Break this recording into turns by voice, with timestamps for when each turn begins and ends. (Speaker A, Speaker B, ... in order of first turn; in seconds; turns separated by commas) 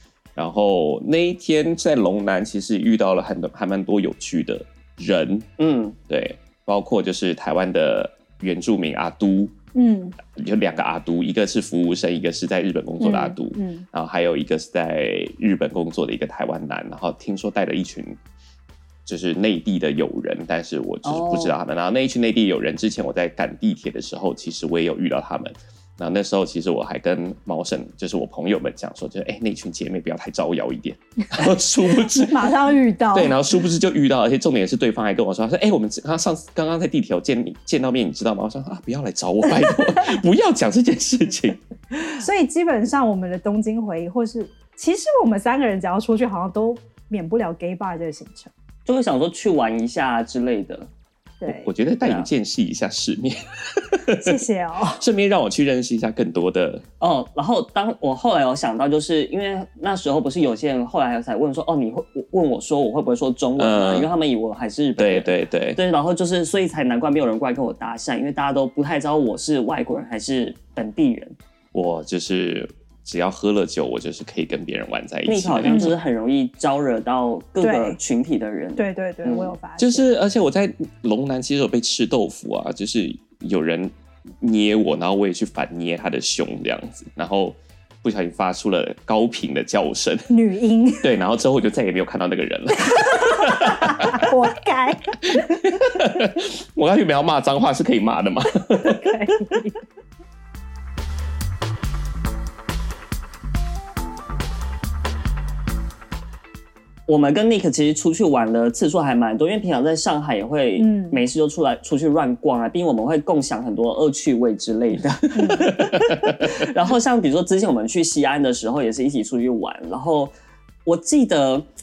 Speaker A: 0.4-5.5, Speaker B: 5.6-6.0, Speaker A: 6.1-9.5, Speaker C: 9.8-10.2, Speaker A: 10.2-18.2, Speaker C: 13.0-13.8, Speaker A: 19.1-32.5, Speaker B: 21.0-21.6, Speaker C: 32.0-33.4, Speaker A: 33.1-41.6, Speaker C: 42.2-48.5, Speaker B: 48.9-50.9, Speaker C: 51.4-51.7, Speaker A: 51.5-54.4, Speaker B: 52.0-52.3, Speaker C: 54.2-55.0, Speaker A: 55.0-56.8, Speaker B: 57.0-71.4, Speaker A: 63.6-64.1, Speaker A: 65.0-65.8, Speaker A: 71.7-76.0, Speaker B: 75.3-79.5, Speaker C: 75.7-76.0, Speaker C: 77.6-78.0, Speaker C: 78.8-80.1, Speaker A: 79.8-90.3, Speaker C: 90.3-91.1, Speaker A: 91.0-94.3, Speaker C: 92.8-95.2, Speaker A: 95.2-99.2, Speaker C: 98.8-99.8, Speaker B: 107.1-120.3, Speaker C: 110.8-111.2, Speaker C: 115.3-115.7, Speaker A: 115.8-116.5, Speaker B: 120.9-121.7